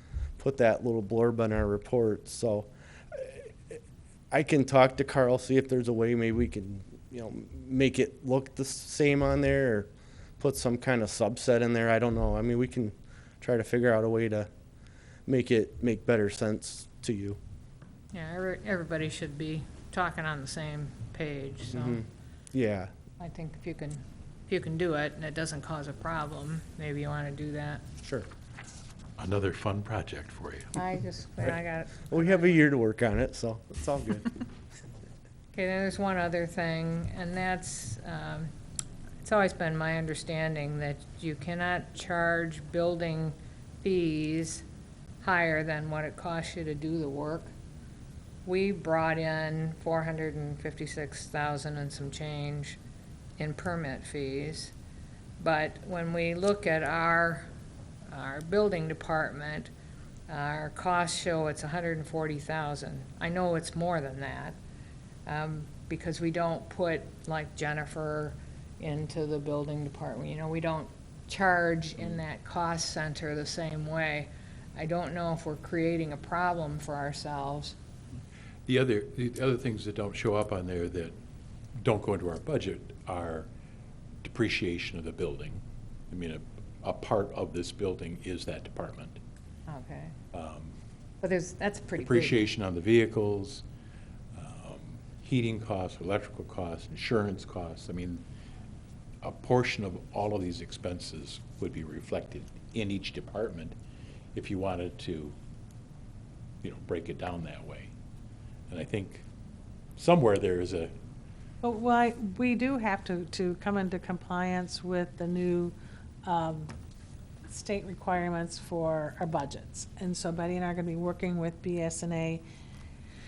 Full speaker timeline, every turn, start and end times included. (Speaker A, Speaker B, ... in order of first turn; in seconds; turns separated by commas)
Speaker A: 0.4-3.4, Speaker A: 4.3-9.9, Speaker A: 10.4-14.5, Speaker A: 15.2-17.4, Speaker B: 18.1-22.0, Speaker A: 21.7-22.9, Speaker B: 23.2-27.8, Speaker C: 29.2-30.8, Speaker B: 30.8-32.6, Speaker A: 32.1-34.3, Speaker B: 35.5-38.5, Speaker B: 39.2-44.6, Speaker B: 45.2-47.5, Speaker B: 48.4-52.8, Speaker B: 53.4-54.7, Speaker B: 55.4-57.5, Speaker B: 58.1-59.7, Speaker B: 60.3-64.6, Speaker B: 65.2-77.8, Speaker C: 78.7-81.1, Speaker C: 81.8-83.5, Speaker C: 84.2-89.2, Speaker B: 89.7-90.2, Speaker C: 90.3-90.7, Speaker B: 91.2-92.4, Speaker C: 92.0-93.6, Speaker C: 94.3-98.2, Speaker C: 99.2-103.7, Speaker C: 104.3-105.3, Speaker C: 106.6-107.9, Speaker C: 108.7-109.2, Speaker C: 110.0-110.9, Speaker D: 111.6-116.7, Speaker D: 117.5-122.4